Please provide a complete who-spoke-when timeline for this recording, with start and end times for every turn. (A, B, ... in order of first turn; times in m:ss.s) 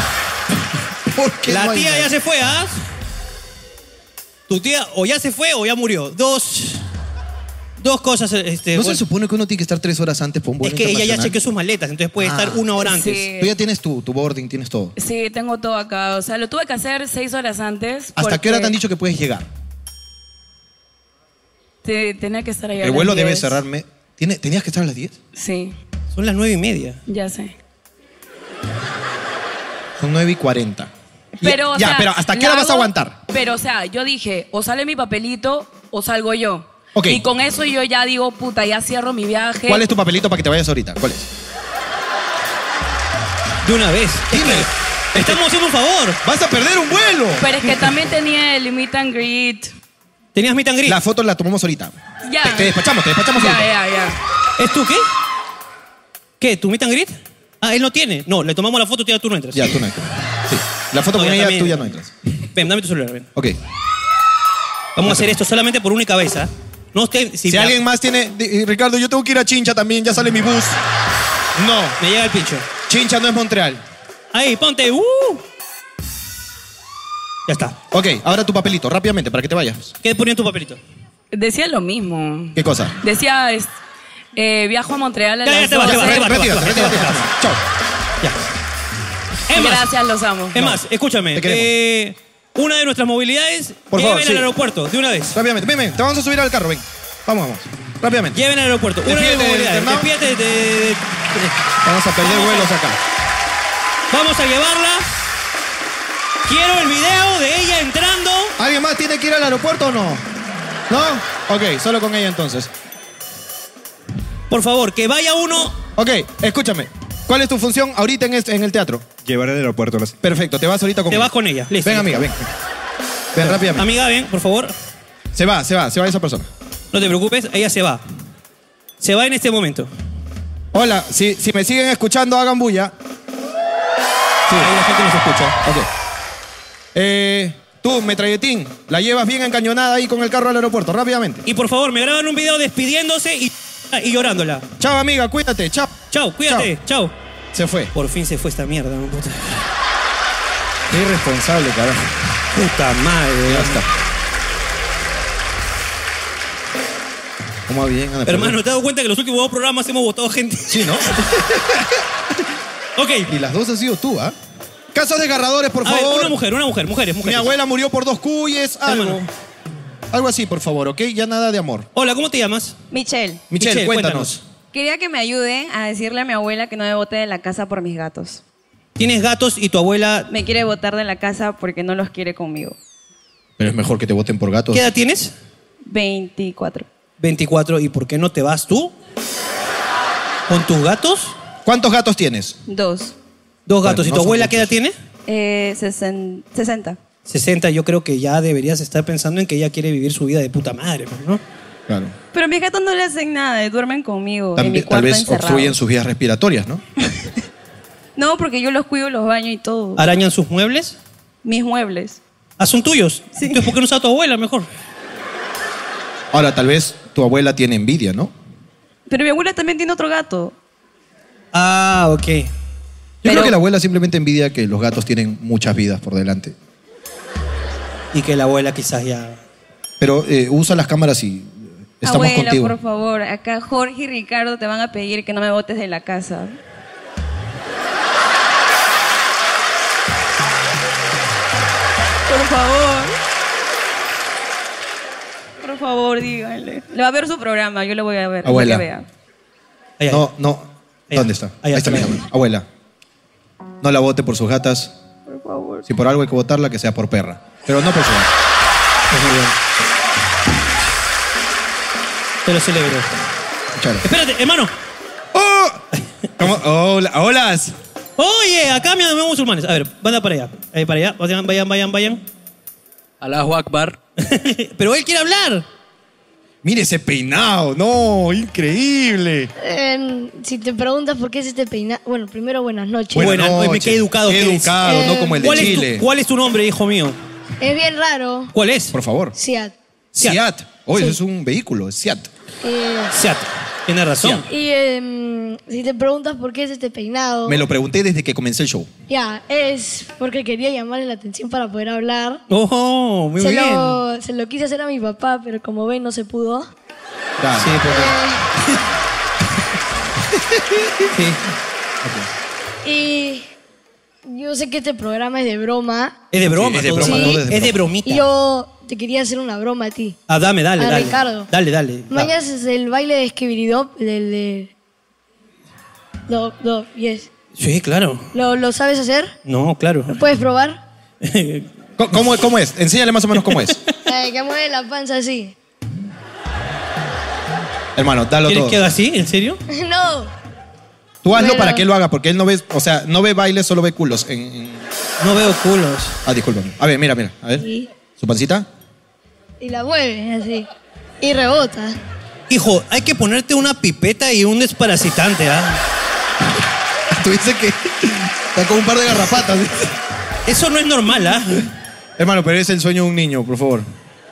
0:01.1-0:02.1 A
0:01.5-0:02.8 B
0:04.5-0:06.8 B
0:07.8-0:09.0 B
0:08.7-0:11.4 A
0:10.6-0:13.3 B
0:12.2-0:12.6 A
0:12.8-0:13.5 C
0:13.3-0:14.9 A
0:15.0-0:18.8 C
0:18.2-0:19.5 A
0:21.8-0:23.6 C
0:22.8-0:25.2 A
0:25.4-0:25.7 C
0:26.1-0:27.0 B
0:27.1-0:27.5 C
0:30.0-0:33.2 A
0:31.4-0:39.8 C
0:37.0-0:37.2 A
0:39.7-0:41.3 A
0:43.6-0:46.2 B
0:44.3-0:45.4 A
0:46.2-0:47.5 A
0:47.4-0:49.7 C
0:50.3-0:51.0 B
0:50.8-0:53.7 A
0:52.3-0:52.7 C
0:53.3-0:54.2 C
0:54.6-0:55.0 B
0:56.4-0:59.8 B
0:59.5-1:02.1 A
1:01.1-1:01.9 B
1:02.5-1:03.3 B
1:05.0-1:07.8 B
1:05.0-1:05.3 A
1:07.5-1:10.8 A
1:11.6-1:12.0 A
1:12.0-1:12.7 B
1:12.9-1:13.8 A
1:14.3-1:15.4 B
1:17.5-1:17.8 B
1:17.9-1:19.9 A
1:20.0-1:20.8 B
1:21.3-1:23.7 C
1:22.6-1:22.9 A
1:24.3-1:26.4 C
1:25.4-1:27.3 B
1:25.8-1:27.6 A
1:29.5-1:29.9 B
1:29.5-1:30.7 C
1:30.5-1:35.4 B
1:31.3-1:31.7 A
1:33.9-1:34.5 A
1:35.3-1:38.4 A
1:38.3-1:41.5 B
1:39.0-1:40.1 A
1:41.8-1:43.0 A
1:42.2-1:42.7 B
1:44.1-1:45.0 B
1:46.4-1:48.5 B
1:48.6-1:50.2 A
1:50.9-1:52.7 A
1:54.5-1:55.8 B
1:56.0-2:02.5 A
2:01.1-2:02.2 B
2:03.3-2:03.8 A
2:03.4-2:04.7 B
2:05.3-2:06.5 A
2:06.9-2:08.0 B
2:09.0-2:09.9 B
2:10.7-2:12.9 A
2:14.6-2:15.6 B
2:15.6-2:15.9 A
2:16.9-2:21.4 A
2:21.4-2:24.7 B
2:24.8-2:26.7 A
2:26.1-2:27.1 B
2:27.5-2:27.9 A
2:27.9-2:29.6 B
2:30.9-2:32.0 A
2:32.5-2:33.8 B
2:33.4-2:33.9 A
2:37.7-2:38.6 A
2:38.2-2:41.1 B
2:40.7-2:42.0 A
2:43.0-2:43.3 B
2:43.3-2:44.3 A
2:44.9-2:46.4 A
2:45.8-2:47.5 B
2:47.2-2:49.3 A
2:48.8-2:49.2 B
2:50.1-2:51.9 A
2:51.9-2:52.8 B
2:52.9-2:53.4 D
2:53.5-2:54.4 A
2:53.6-2:54.4 B
2:54.7-2:58.4 D
2:59.0-3:00.3 B
3:00.3-3:02.8 D
3:03.6-3:04.8 A
3:04.7-3:05.3 B
3:05.8-3:06.9 D
3:07.2-3:08.9 B
3:10.5-3:11.3 B
3:11.6-3:12.6 A
3:12.7-3:13.1 D
3:13.7-3:14.9 B
3:13.8-3:14.7 A
3:15.3-3:17.0 D
3:17.3-3:21.4 B
3:21.9-3:22.1 A
3:22.3-3:25.7 D
3:24.6-3:26.8 A
3:28.2-3:30.0 D
3:30.0-3:31.0 B
3:31.4-3:32.2 D
3:32.6-3:34.7 B
3:33.4-3:33.7 D
3:36.3-3:38.3 A
3:39.1-3:40.5 D
3:41.5-3:42.5 B
3:43.2-3:46.5 A
3:48.1-3:49.4 B
3:50.0-3:52.7 A
3:52.0-3:56.5 D
4:02.2-4:03.2 D
4:05.6-4:09.0 D
4:08.4-4:08.8 A
4:10.0-4:10.3 B
4:10.1-4:12.7 A
4:11.1-4:12.2 B
4:13.8-4:14.9 A
4:15.2-4:15.8 D
4:15.8-4:18.3 A
4:19.1-4:19.6 B
4:22.4-4:23.1 B
4:23.7-4:24.0 A
4:24.0-4:24.7 B
4:25.3-4:25.8 A
4:26.4-4:27.7 A
4:28.2-4:32.2 B
4:34.2-4:35.6 B
4:36.6-4:39.5 A
4:39.6-4:43.3 E
4:43.1-4:46.0 A
4:43.1-4:47.2 B
4:44.8-4:45.8 E
4:47.6-4:48.5 E
4:48.5-4:48.9 B
4:48.9-4:49.3 A
4:49.3-4:49.7 E
4:50.2-4:52.3 A
4:52.6-4:53.1 E
4:53.1-4:54.4 B
4:54.4-4:57.6 E
4:57.4-4:58.9 A
4:59.1-5:02.4 E
5:02.5-5:04.0 B
5:03.4-5:06.7 E
5:07.4-5:07.8 A
5:07.6-5:08.8 B
5:07.8-5:08.4 E
5:10.4-5:11.0 A
5:11.1-5:11.4 B
5:12.0-5:12.3 A
5:12.8-5:13.5 E
5:14.2-5:16.2 E
5:16.3-5:18.2 B
5:16.4-5:17.8 A
5:17.0-5:17.5 E
5:18.0-5:20.2 E
5:20.3-5:22.3 B
5:20.8-5:21.5 E
5:22.1-5:24.7 E
5:26.3-5:27.3 E
5:27.6-5:28.3 B
5:28.3-5:29.3 E
5:29.4-5:30.2 B
5:30.1-5:30.8 E
5:31.2-5:31.7 B
5:32.0-5:33.8 A
5:33.4-5:33.8 B
5:34.0-5:35.5 E
5:38.0-5:38.8 A
5:38.4-5:39.6 B
5:39.7-5:40.3 E
5:41.2-5:44.9 A
5:41.3-5:41.9 E
5:45.2-5:46.2 B
5:46.2-5:47.6 A
5:47.6-5:47.9 E
5:48.2-5:48.7 A
5:49.6-5:50.7 E
5:51.2-5:52.0 E
5:52.5-5:55.8 B
5:57.1-5:59.9 A
6:00.4-6:01.6 B
6:02.2-6:03.8 A